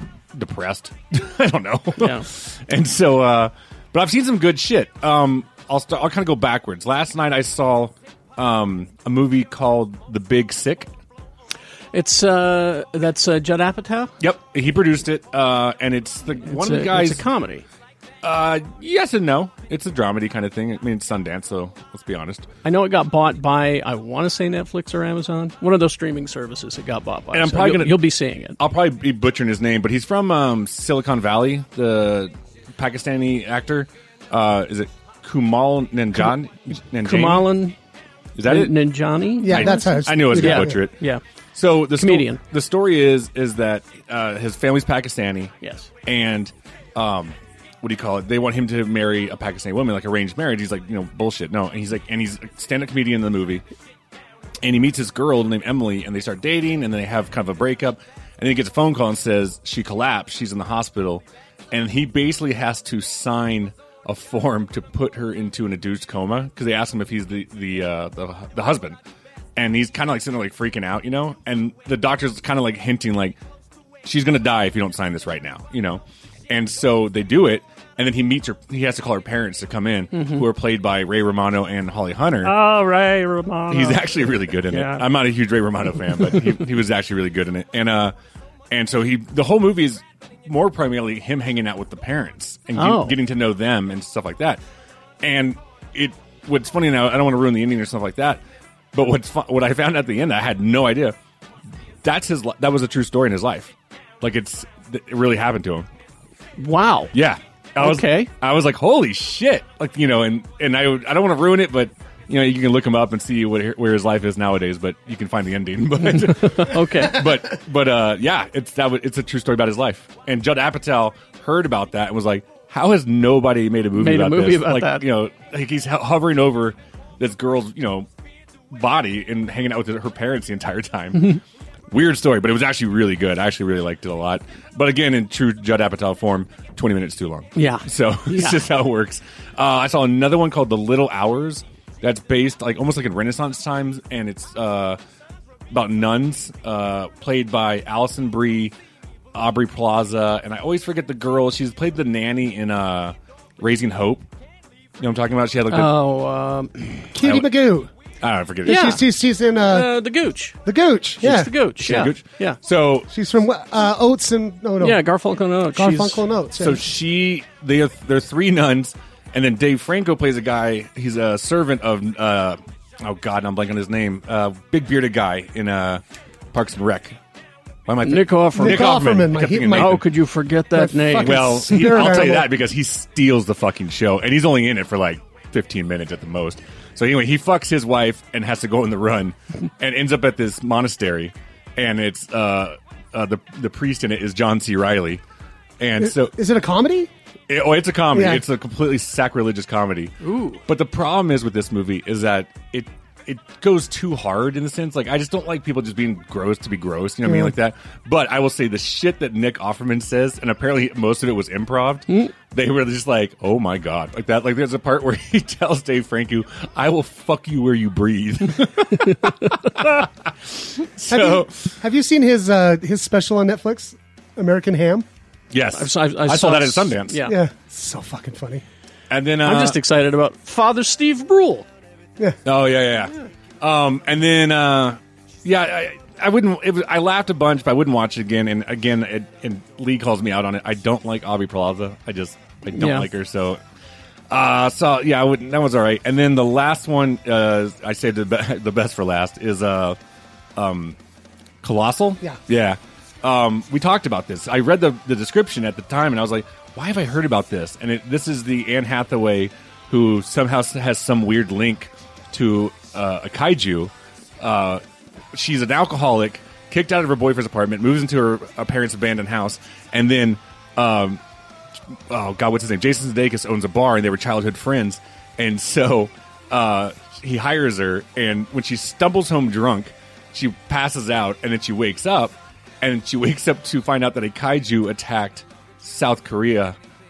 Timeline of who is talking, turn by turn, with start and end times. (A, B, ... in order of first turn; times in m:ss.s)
0:00.3-0:10.9 A
0:02.0-0:02.2 B
0:11.9-0:14.1 B
0:14.2-0:17.2 A
0:16.4-0:17.6 B
0:18.2-0:22.5 A
0:22.6-0:28.6 B
0:27.3-0:28.1 A
0:28.6-0:37.5 A
0:37.0-0:37.8 B
0:38.4-0:38.8 A
0:38.4-0:41.2 B
0:39.4-0:40.8 C
0:39.4-0:41.0 A
0:41.6-0:45.6 A
0:42.0-0:42.4 B
0:45.6-0:45.9 B
0:46.1-0:53.6 A
0:54.6-1:09.0 A
1:09.6-1:13.4 A
1:14.0-1:22.6 A
1:20.1-1:20.5 B
1:22.4-1:25.1 B
1:23.7-1:28.1 A
1:28.7-1:34.6 A
1:32.8-1:33.2 B
1:35.2-1:38.4 A
1:38.9-1:41.2 A
1:42.0-1:45.9 A
1:46.6-1:47.1 B
1:47.1-2:08.1 A
1:47.8-1:48.3 B
1:56.1-1:57.3 B
2:04.0-2:05.1 B
2:08.7-2:11.4 A
2:11.9-2:25.0 A
2:17.6-2:18.6 B
2:25.7-2:28.7 A
2:29.4-2:34.2 A
2:35.0-2:36.0 A
2:35.7-2:37.1 B
2:37.1-2:37.9 C
2:37.2-2:37.5 A
2:38.2-2:39.0 A
2:38.7-2:39.0 B
2:38.7-2:40.0 C
2:39.6-2:40.6 B
2:40.6-2:42.1 C
2:41.2-2:42.6 B
2:41.8-2:43.1 A
2:43.1-2:45.0 C
2:44.8-2:46.2 B
2:45.7-2:46.8 C
2:46.6-2:56.0 A
2:56.5-2:57.2 A
2:57.9-3:00.1 A
2:58.0-2:59.0 B
2:58.6-3:00.0 C
2:59.8-3:02.0 B
3:00.7-3:02.5 C
3:01.2-3:15.2 A
3:15.8-3:16.4 A
3:16.0-3:17.1 C
3:17.5-3:20.2 A
3:18.1-3:18.4 C
3:20.2-3:20.6 B
3:20.7-3:41.7 A
3:27.3-3:27.5 C
3:41.1-3:45.1 C
3:45.5-3:47.3 A
3:45.8-3:47.4 B
3:47.3-3:48.6 C
3:49.1-3:49.8 A
3:49.4-3:51.7 B
3:52.4-4:03.6 A
4:02.7-4:03.1 B
4:04.3-4:10.0 A
4:10.6-4:11.0 A
4:11.6-4:24.8 A
4:25.3-4:31.2 A
4:32.1-4:46.8 A